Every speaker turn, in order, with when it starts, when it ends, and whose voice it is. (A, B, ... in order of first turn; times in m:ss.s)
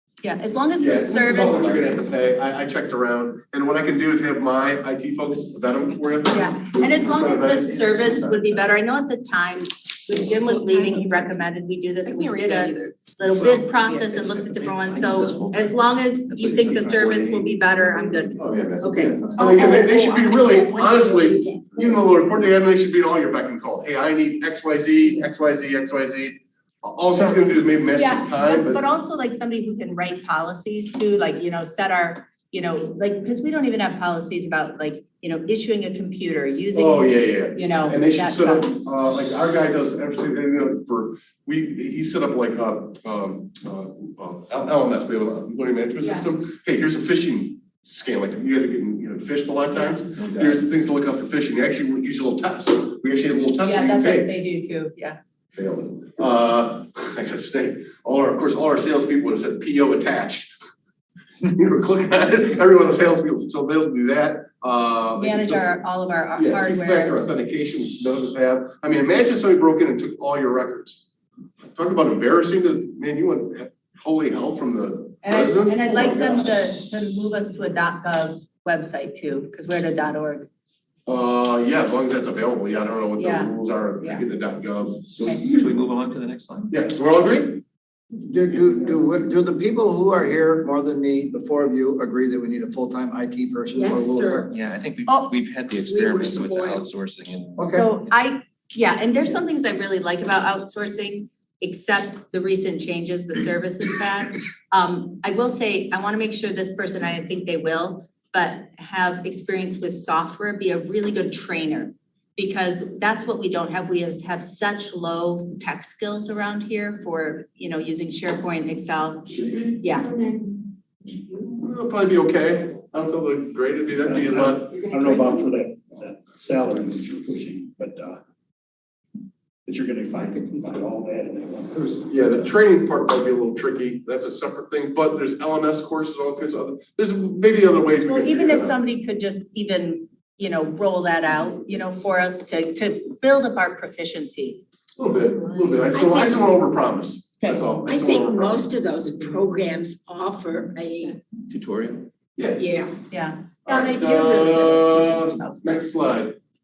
0:00.2-0:01.9 A
0:00.8-0:08.6 B
0:06.3-0:19.8 A
0:06.9-0:07.6 C
0:10.4-0:11.1 C
0:12.0-0:13.1 C
0:13.4-0:15.7 D
0:16.3-0:17.5 D
0:18.4-0:28.8 B
0:19.4-0:22.0 C
0:27.2-0:27.4 A
0:27.9-0:38.7 A
0:36.7-0:54.3 B
0:46.0-0:46.3 A
0:50.2-0:50.6 D
0:53.6-0:55.2 A
0:55.5-1:00.5 B
1:01.4-1:05.7 B
1:05.2-1:07.2 A
1:06.3-1:11.0 B
1:11.8-1:16.7 B
1:15.2-1:20.5 A
1:21.1-1:25.2 B
1:23.2-1:24.2 A
1:25.2-1:26.7 D
1:26.7-1:27.6 B
1:28.2-1:34.5 E
1:33.7-1:34.5 C
1:34.5-1:37.7 D
1:35.7-1:36.9 C
1:37.6-1:37.9 E
1:37.7-2:00.1 A
1:59.3-2:00.6 B
2:01.2-2:04.7 B
2:04.0-2:08.2 F
2:04.7-2:05.4 C
2:09.7-2:12.0 F
2:12.1-2:18.8 B
2:18.1-2:24.6 A
2:25.0-2:28.6 B
2:25.9-2:26.4 C
2:27.4-2:31.2 C
2:31.5-2:32.1 D
2:32.4-2:32.7 B
2:32.6-2:33.0 C
2:33.1-2:35.8 A
2:33.7-2:36.4 B